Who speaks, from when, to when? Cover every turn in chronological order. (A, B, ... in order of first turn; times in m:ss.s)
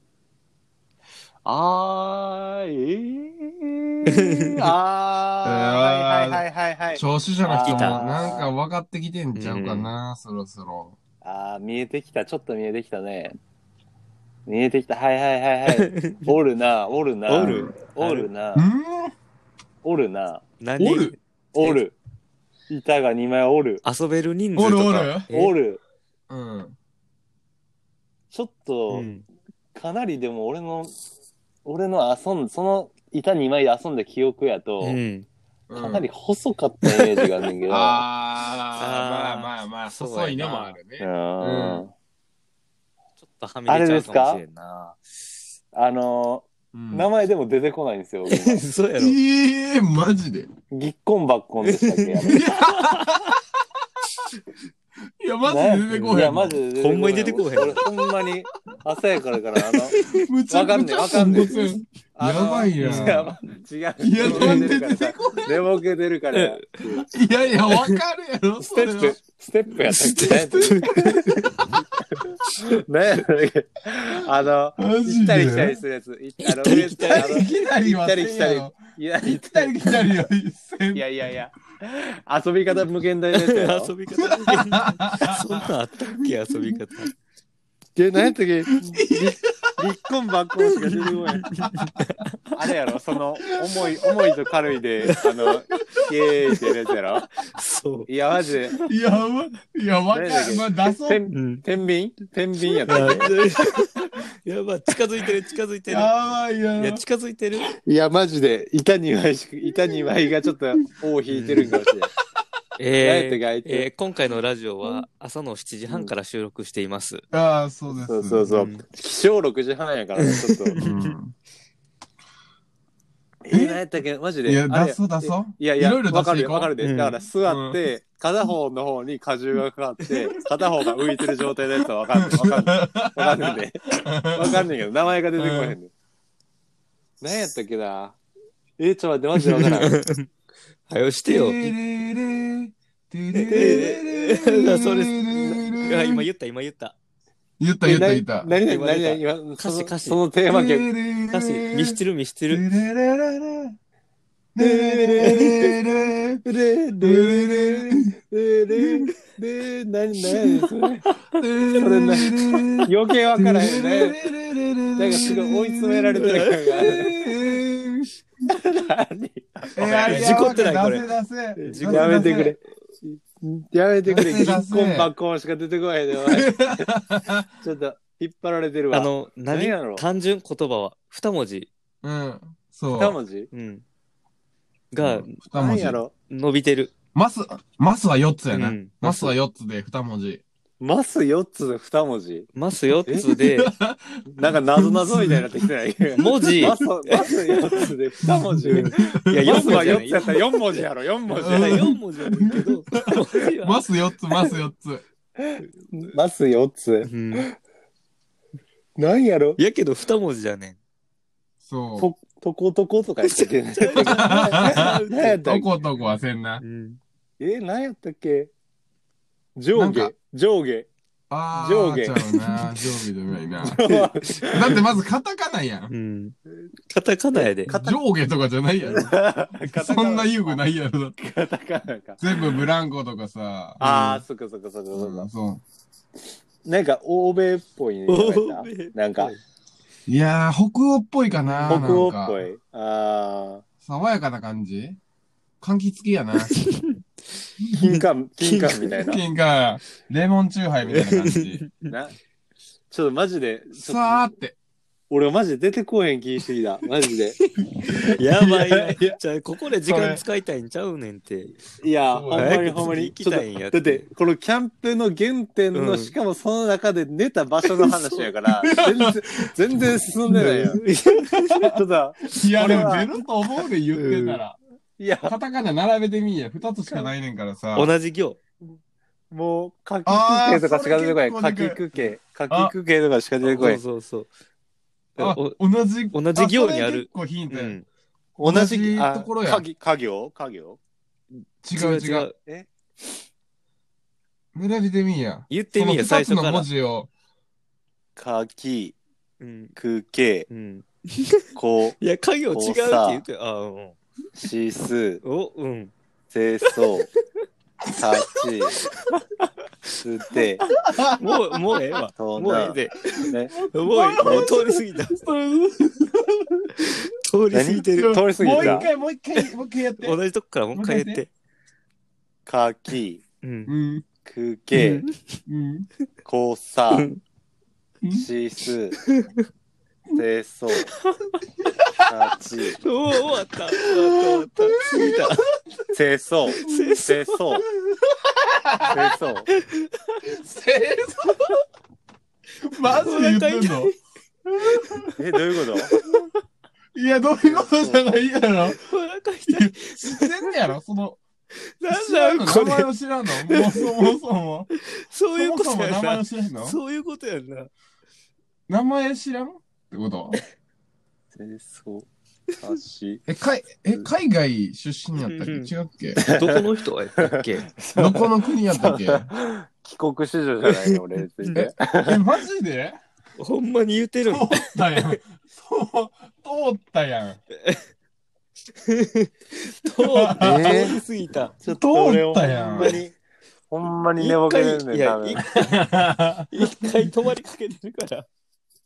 0:01.4-0:08.5 A
0:04.3-0:04.7 B
0:05.4-0:11.0 C
0:07.7-0:08.0 B
0:09.4-0:09.9 B
0:11.2-0:13.4 A
0:14.5-0:18.7 A
0:15.7-0:16.4 B
0:17.3-0:18.3 B
0:18.6-0:19.1 C
0:19.8-0:20.4 A
0:20.6-0:21.8 B
0:20.8-0:21.2 C
0:21.5-0:22.0 A
0:22.7-0:23.8 A
0:23.8-0:25.6 B
0:24.6-0:25.3 C
0:25.3-0:25.8 A
0:26.3-0:26.8 C
0:28.3-0:29.1 A
0:28.9-0:29.2 B
0:29.7-0:31.0 A
0:31.6-0:35.0 A
0:34.8-0:35.3 B
0:35.7-0:36.1 C
0:35.8-0:38.0 A
0:37.7-0:41.8 C
0:38.8-0:40.8 B
0:41.0-0:41.9 A
0:43.2-0:45.0 B
0:43.7-0:44.4 A
0:45.7-0:48.6 A
0:46.7-0:47.1 C
0:48.3-0:49.2 B
0:49.0-0:50.5 C
0:50.7-0:52.4 A
0:51.6-0:53.3 B
0:52.2-0:53.4 C
0:55.2-0:56.6 C
0:55.5-1:00.0 A
0:55.9-0:57.9 B
0:59.7-1:00.3 B
1:00.1-1:03.4 C
1:00.5-1:01.6 A
1:01.4-1:01.8 B
1:02.2-1:07.1 A
1:02.8-1:03.3 B
1:04.0-1:05.7 C
1:04.2-1:04.7 B
1:06.3-1:07.0 B
1:07.0-1:09.2 C
1:07.7-1:08.0 B
1:08.6-1:11.1 A
1:09.9-1:11.8 C
1:10.2-1:11.5 B
1:12.1-1:19.8 A
1:14.8-1:15.8 C
1:16.4-1:17.4 B
1:17.1-1:21.0 C
1:20.9-1:23.9 A
1:23.3-1:27.1 B
1:24.3-1:26.8 C
1:28.0-1:31.5 A
1:28.9-1:29.7 C
1:31.0-1:31.9 C
1:31.4-1:32.3 B
1:32.5-1:37.3 A
1:33.6-1:34.1 C
1:37.4-1:38.1 B
1:38.1-1:38.8 A
1:38.9-1:41.2 C
1:40.1-1:43.3 A
1:41.3-1:41.6 B
1:42.9-1:46.1 B
1:45.9-1:47.0 C
1:46.8-1:47.7 B
1:47.8-1:52.1 A
1:51.3-1:51.7 B
1:52.8-1:57.2 B
1:53.0-1:53.9 A
1:57.3-1:58.5 C
1:58.0-2:00.8 A
1:58.5-1:58.8 B
2:00.2-2:01.2 B
2:00.8-2:01.3 C
2:03.4-2:15.9 A
2:03.5-2:03.8 C
2:04.4-2:06.7 C
2:06.8-2:07.2 B
2:07.5-2:07.8 C
2:12.2-2:14.7 C
2:15.4-2:15.8 C
2:17.2-2:18.2 A
2:18.8-2:20.0 A
2:19.4-2:20.3 B
2:20.9-2:21.7 B
2:21.3-2:26.3 C
2:23.3-2:27.0 B
2:27.6-2:28.5 C
2:27.8-2:30.9 A
2:28.6-2:30.2 B
2:30.5-2:33.8 C
2:31.3-2:32.6 B
2:34.6-2:36.4 C
2:34.6-2:35.7 A
2:36.4-2:41.1 A
2:37.0-2:38.1 C
2:41.4-2:48.1 C
2:41.8-2:44.2 A
2:45.0-2:47.1 A
2:46.2-2:47.0 B
2:48.5-2:50.6 A
2:49.8-2:52.6 C
2:49.8-2:51.1 B
2:51.6-2:52.5 B
2:51.8-2:56.9 A
2:54.1-2:55.1 C
2:56.3-2:57.5 C
2:57.6-3:00.0 A
2:58.9-3:01.7 B
3:02.0-3:03.2 C
3:02.9-3:03.5 A
3:03.5-3:03.8 B
3:04.9-3:05.4 B
3:05.0-3:06.0 C
3:05.5-3:06.1 A
3:06.3-3:06.9 B
3:07.2-3:10.4 C
3:08.5-3:09.3 B
3:10.8-3:12.5 A
3:12.6-3:13.7 B
3:13.2-3:15.7 C
3:14.3-3:21.8 A
3:16.2-3:17.9 B
3:16.3-3:16.7 C
3:18.2-3:20.0 C
3:18.7-3:20.8 B
3:21.4-3:25.0 C
3:21.4-3:23.8 B
3:25.4-3:27.5 A
3:27.0-3:27.5 B
3:29.0-3:29.6 A
3:29.6-3:30.8 B
3:31.6-3:32.1 C
3:32.0-3:35.7 A
3:33.2-3:35.4 B
3:34.0-3:36.6 C
3:36.6-3:37.0 B
3:37.4-3:38.5 A
3:39.6-3:40.9 A
3:39.8-3:40.1 C
3:41.3-3:43.8 C
3:41.5-3:42.2 A
3:42.3-3:42.8 B
3:43.6-3:44.8 A
3:44.4-3:45.9 C
3:45.9-3:46.4 B
3:46.9-3:47.7 B
3:47.4-3:48.0 A
3:47.7-3:49.2 C
3:48.8-3:50.6 A
3:49.7-3:51.2 C
3:51.2-3:52.2 A
3:52.2-3:54.2 C
3:53.8-3:55.3 A
3:53.8-3:54.1 B
3:54.9-3:55.6 C
3:56.6-3:59.3 A
3:58.1-3:59.4 B
4:00.1-4:02.4 C
4:01.3-4:02.0 B
4:01.7-4:03.6 A
4:03.8-4:05.0 C
4:05.6-4:06.5 C
4:06.4-4:07.0 B
4:07.7-4:09.2 A
4:07.8-4:08.9 B
4:09.0-4:11.6 C
4:10.9-4:11.9 B
4:11.9-4:12.2 A
4:12.9-4:14.3 A
4:13.8-4:14.6 C
4:15.1-4:17.4 A
4:17.4-4:21.6 B
4:17.9-4:18.9 C
4:19.9-4:20.2 C
4:21.8-4:30.8 A
4:22.1-4:22.9 C
4:22.3-4:24.0 B
4:25.7-4:26.1 B
4:28.6-4:31.8 C
4:30.3-4:31.7 B
4:31.7-4:33.1 A
4:32.3-4:34.6 C
4:33.9-4:34.4 B
4:35.0-4:35.4 A
4:35.2-4:37.9 C
4:37.8-4:38.4 B
4:39.3-4:43.8 A
4:40.1-4:41.8 C
4:42.5-4:42.7 C
4:43.4-4:44.3 B
4:45.2-4:45.6 B
4:45.2-4:47.8 C
4:46.1-4:47.8 B
4:48.4-4:50.8 A
4:48.4-4:49.6 C
4:51.6-4:52.3 C
4:51.7-4:52.4 B
4:54.5-4:57.1 C
4:55.5-4:56.7 B
4:58.2-4:59.0 A
4:59.4-4:59.7 B
4:59.8-5:00.5 A
5:00.5-5:01.5 B
5:01.6-5:02.0 A
5:02.0-5:04.0 B
5:02.5-5:03.2 A
5:04.4-5:05.2 A
5:05.2-5:05.9 B
5:06.3-5:07.1 A
5:06.8-5:07.1 B
5:08.0-5:08.8 A
5:10.0-5:10.6 A
5:10.8-5:11.6 C
5:11.2-5:15.2 B
5:12.2-5:13.5 A
5:13.2-5:16.7 C
5:14.2-5:14.5 A
5:16.8-5:19.5 B
5:17.5-5:18.9 A
5:18.0-5:20.2 C
5:20.0-5:21.3 B
5:20.7-5:21.2 C
5:22.5-5:23.2 A
5:23.4-5:23.7 B
5:23.7-5:24.0 C
5:24.2-5:25.0 A
5:24.7-5:25.4 B
5:25.5-5:25.9 C
5:26.2-5:27.1 A
5:26.9-5:27.2 B
5:28.0-5:28.3 C
5:28.1-5:29.0 A
5:29.0-5:29.4 B
5:30.2-5:30.9 A
5:30.9-5:31.4 B
5:31.6-5:32.1 C
5:32.1-5:32.8 A
5:32.8-5:35.5 B
5:33.8-5:35.3 C
5:35.9-5:37.6 A
5:36.6-5:37.6 B
5:36.6-5:37.0 C
5:37.8-5:39.1 C
5:38.9-5:39.5 A
5:39.5-5:40.2 B
5:40.2-5:41.6 C
5:42.6-5:43.9 C
5:42.8-5:44.0 B
5:44.5-5:45.1 C
5:44.7-5:45.1 B
5:45.2-5:45.9 A
5:45.8-5:46.3 B
5:45.9-5:46.3 C
5:46.9-5:48.8 C
5:47.4-5:48.0 A
5:48.7-5:50.6 B
5:49.5-5:51.2 C
5:51.8-5:54.2 B
5:51.9-5:54.7 C
5:54.8-5:57.7 B
5:55.3-5:56.8 C
5:58.7-6:00.4 C
6:01.4-6:03.2 A
6:03.3-6:06.2 C
6:05.2-6:07.7 B
6:06.2-6:06.6 A
6:07.2-6:12.2 A
6:08.0-6:09.3 C
6:11.6-6:13.0 C
6:13.4-6:15.2 B
6:14.3-6:17.4 C
6:18.8-6:21.6 B
6:20.0-6:21.0 C
6:20.4-6:21.0 A
6:21.6-6:23.2 A
6:21.7-6:23.0 C
6:23.7-6:25.4 A
6:24.2-6:25.7 B
6:25.5-6:27.1 C
6:26.5-6:28.3 B